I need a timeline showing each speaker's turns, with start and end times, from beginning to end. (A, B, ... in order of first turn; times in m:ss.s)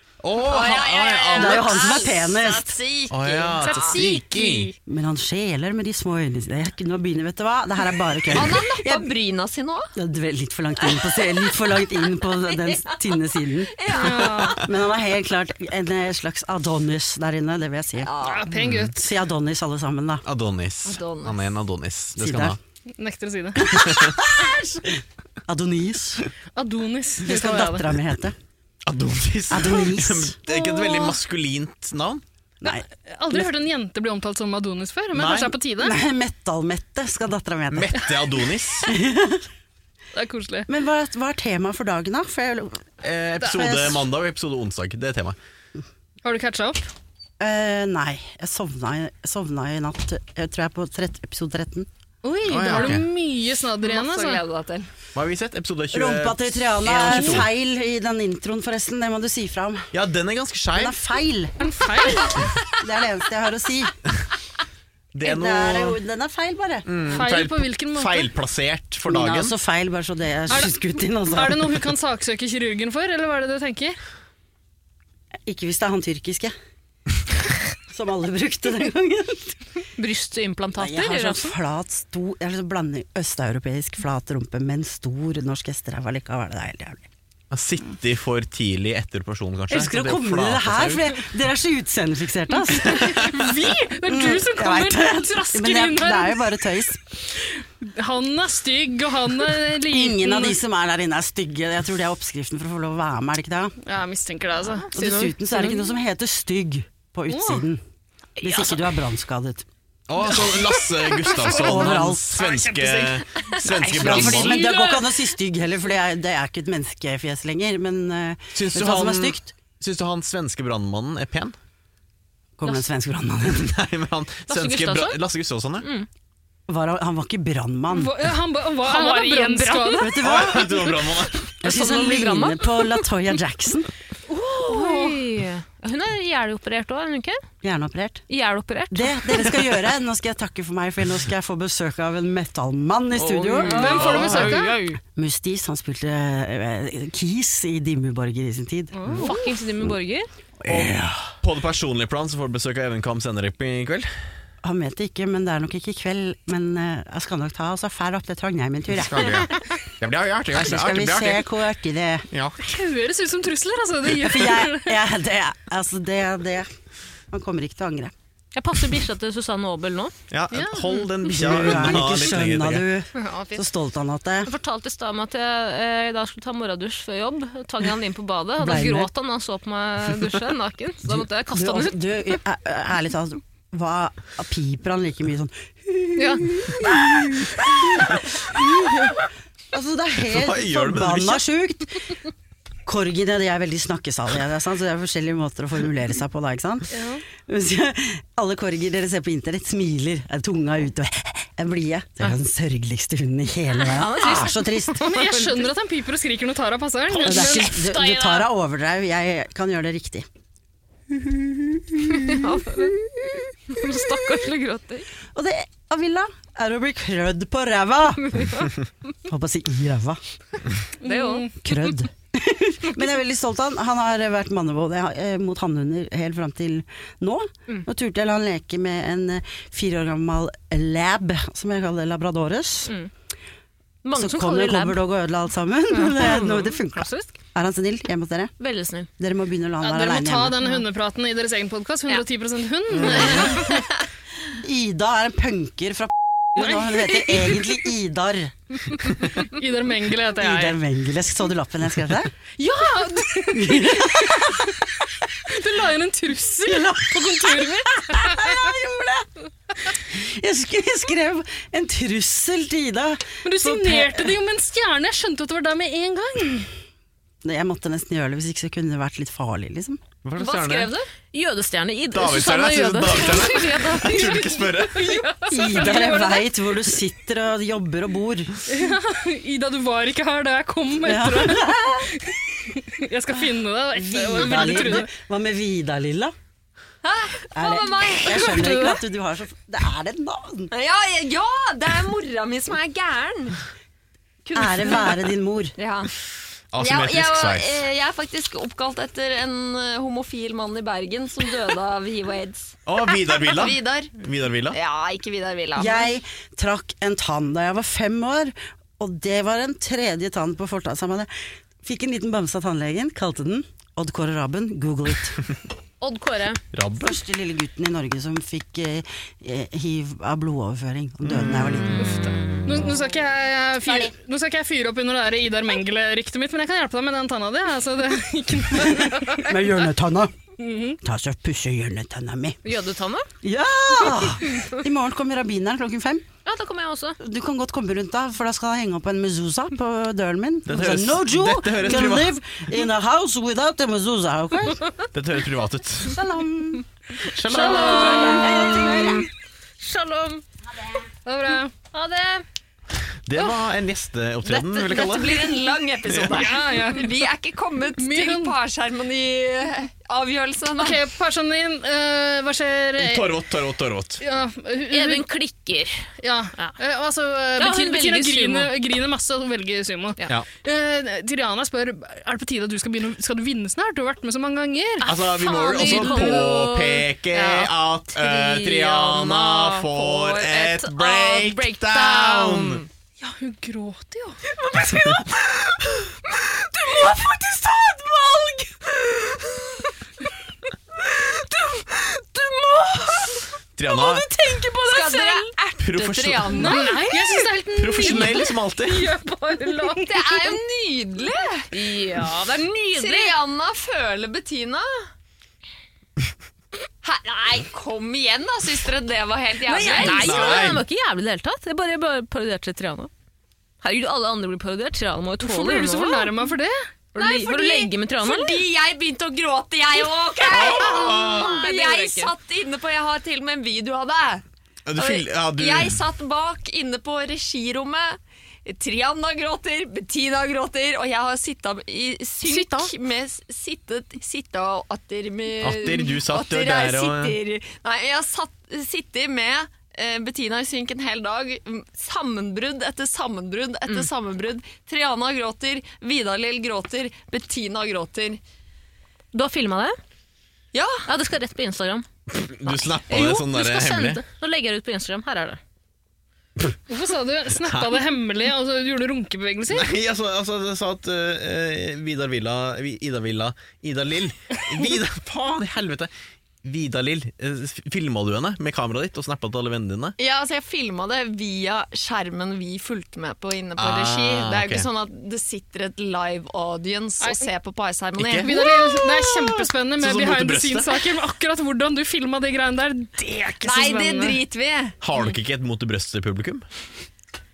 0:00.2-0:01.8 A
0:00.4-0:04.0 B
0:01.4-0:02.8 C
0:03.1-0:04.7 A
0:03.6-0:04.8 D
0:04.9-0:09.1 C
0:08.3-0:09.9 B
0:10.0-0:13.7 C
0:10.8-0:11.6 B
0:12.5-0:14.7 B
0:13.9-0:14.6 D
0:14.6-0:18.1 C
0:18.0-0:18.5 B
0:18.2-0:19.0 D
0:18.5-0:18.9 A
0:19.0-0:20.2 C
0:20.2-0:22.6 A
0:20.8-0:21.5 B
0:22.2-0:22.6 C
0:23.0-0:24.0 D
0:23.6-0:26.3 C
0:23.7-0:24.2 A
0:26.6-0:27.9 D
0:27.2-0:28.4 C
0:28.9-0:32.2 A
0:29.5-0:30.4 C
0:30.5-0:31.2 D
0:32.6-0:33.5 C
0:32.6-0:35.9 D
0:35.1-0:35.6 A
0:35.8-0:38.1 C
0:37.7-0:38.9 A
0:38.8-0:39.4 C
0:40.1-0:40.7 D
0:40.7-0:42.8 C
0:43.0-0:45.4 A
0:43.4-0:44.0 C
0:46.2-0:46.9 D
0:47.4-0:51.9 C
0:52.2-0:54.4 D
0:52.5-0:53.1 A
0:53.8-0:54.9 B
0:55.2-0:57.5 A
0:55.9-0:59.9 C
0:57.1-0:57.4 D
0:59.9-1:01.0 A
1:00.8-1:01.5 C
1:01.6-1:02.5 D
1:02.8-1:03.9 C
1:05.1-1:06.0 A
1:05.2-1:07.0 C
1:06.9-1:09.6 A
1:07.0-1:08.3 D
1:09.1-1:11.8 C
1:11.3-1:14.0 D
1:15.5-1:16.5 C
1:17.9-1:19.6 C
1:20.0-1:21.6 E
1:20.8-1:27.1 C
1:27.5-1:31.0 A
1:29.7-1:33.3 C
1:32.7-1:36.6 D
1:34.1-1:37.0 C
1:37.3-1:40.6 D
1:39.8-1:43.8 C
1:43.8-1:44.9 D
1:44.9-1:45.9 E
1:44.9-1:47.8 C
1:47.3-1:47.7 D
1:48.4-1:48.8 E
1:48.4-1:49.6 C
1:50.1-1:54.7 A
1:50.2-1:55.2 D
1:51.5-1:52.4 C
1:53.9-1:59.5 C
1:58.5-2:01.6 A
2:02.6-2:03.7 C
2:03.5-2:05.9 A
2:04.5-2:05.2 E
2:05.8-2:06.1 E
2:06.7-2:08.2 C
2:07.9-2:10.6 D
2:08.8-2:10.2 E
2:10.0-2:10.8 C
2:10.2-2:11.5 A
2:11.6-2:13.9 C
2:11.6-2:13.0 E
2:14.3-2:17.4 E
2:14.5-2:15.2 D
2:17.6-2:18.2 C
2:18.3-2:19.5 E
2:18.9-2:29.2 C
2:23.2-2:24.6 A
2:23.6-2:24.8 D
2:23.6-2:25.0 E
2:28.9-2:29.5 D
2:29.1-2:30.3 E
2:30.6-2:31.3 C
2:30.7-2:34.1 A
2:34.6-2:39.4 C
2:39.0-2:41.4 A
2:40.5-2:42.3 C
2:42.3-2:42.6 A
2:42.6-2:45.0 D
2:44.1-2:46.7 C
2:47.3-2:48.1 C
2:48.6-2:50.1 E
2:50.3-2:52.9 A
2:50.5-2:51.1 D
2:51.2-2:54.5 C
2:53.1-2:53.7 E
2:54.4-3:02.3 E
2:58.6-2:59.1 C
3:01.1-3:09.2 C
3:06.2-3:06.4 E
3:09.7-3:12.2 C
3:10.3-3:11.4 A
3:12.9-3:25.0 C
3:16.9-3:17.2 D
3:23.8-3:25.7 E
3:25.0-3:27.8 D
3:27.1-3:28.5 E
3:27.2-3:30.3 C
3:31.1-3:34.1 C
3:32.2-3:32.9 E
3:33.7-3:35.1 E
3:35.3-3:38.7 C
3:38.3-3:38.7 E
3:39.2-3:40.2 C
3:41.0-3:41.6 D
3:41.0-3:41.5 E
3:41.6-3:52.9 C
3:54.0-3:55.0 E
3:54.2-3:58.5 C
3:55.9-3:57.4 E
3:58.6-3:59.1 E
3:59.2-4:00.6 C
3:59.8-4:03.8 D
4:02.9-4:03.4 A
4:04.6-4:08.5 C
4:06.6-4:07.6 D
4:09.2-4:10.8 D
4:10.4-4:12.3 C
4:12.6-4:14.8 D
4:13.5-4:14.7 C
4:15.5-4:18.7 D
4:16.6-4:19.3 C
4:20.1-4:24.3 C
4:23.4-4:26.7 D
4:27.4-4:30.0 C
4:30.2-4:30.9 A
4:30.4-4:35.3 E
4:32.1-4:35.2 A
4:34.1-4:36.5 D
4:35.5-4:38.6 C
4:38.7-4:45.1 D
4:41.0-4:42.1 C
4:43.9-4:46.3 C
4:47.0-4:49.0 B
4:47.6-4:50.7 C
4:50.7-4:53.6 B
4:54.5-4:55.8 C
4:54.6-4:56.1 B
4:56.7-4:57.8 A
4:56.8-5:04.2 B
5:02.9-5:04.8 A
5:04.7-5:06.1 B
5:05.8-5:11.3 C
5:11.8-5:15.4 C
5:16.0-5:16.6 E
5:16.7-5:17.2 A
5:17.0-5:22.0 C
5:21.2-5:21.9 A
5:21.9-5:29.5 D
5:28.8-5:30.3 C
5:30.6-5:31.0 D
5:31.0-5:32.6 C
5:32.6-5:33.3 E
5:33.4-5:36.2 C
5:36.4-5:37.2 E
5:37.2-5:44.9 C
5:40.7-5:42.4 A
5:45.1-5:46.2 A
5:46.1-5:46.8 C
5:47.3-5:48.4 A
5:47.5-5:48.9 D
5:47.5-5:50.4 E
5:48.5-5:49.2 C
5:51.3-5:51.7 D
5:51.9-5:52.4 E
5:53.3-5:56.5 A
5:54.4-6:01.0 B
5:56.3-5:57.3 D
5:58.0-5:58.6 D
6:00.8-6:03.4 D
6:03.0-6:04.2 A
6:04.2-6:05.3 D
6:04.9-6:06.0 E
6:06.2-6:15.1 D
6:07.6-6:08.7 E
6:15.0-6:22.9 E
6:15.0-6:22.8 A
6:15.7-6:16.5 D
6:23.2-6:24.4 D
6:24.5-6:25.6 E
6:26.6-6:29.9 E
6:31.2-6:35.5 E
6:33.8-6:34.3 A
6:34.8-6:37.1 B
6:35.8-6:36.8 A
6:36.5-6:40.4 D
6:36.7-6:37.5 E
6:37.8-6:39.1 A
6:38.0-6:38.5 E
6:39.5-6:40.0 E
6:40.0-6:41.7 B
6:41.7-6:43.3 E
6:42.9-6:45.1 B
6:47.0-6:50.8 B
6:49.7-6:53.1 E
6:50.0-6:50.8 A
6:53.8-6:56.5 E
6:55.4-6:56.8 D
6:57.2-6:58.6 E
6:57.2-7:04.4 B
7:00.5-7:01.6 A
7:00.6-7:02.3 E
7:04.9-7:06.0 A
7:05.0-7:28.4 B
7:12.4-7:12.9 E
7:15.6-7:17.4 A
7:29.3-7:30.0 E
7:30.7-7:31.0 B
7:31.0-7:32.1 E
7:32.3-7:34.2 A
7:32.6-7:35.6 E
7:36.9-7:39.9 D
7:37.6-7:37.9 A
7:39.7-7:46.1 A
7:46.6-7:50.2 A
7:50.2-7:59.5 B
7:53.8-7:54.9 A
7:57.2-7:57.5 D
7:58.2-7:58.5 A
7:58.4-8:04.4 D
8:00.0-8:01.0 A
8:03.6-8:05.0 B
8:05.0-8:06.6 A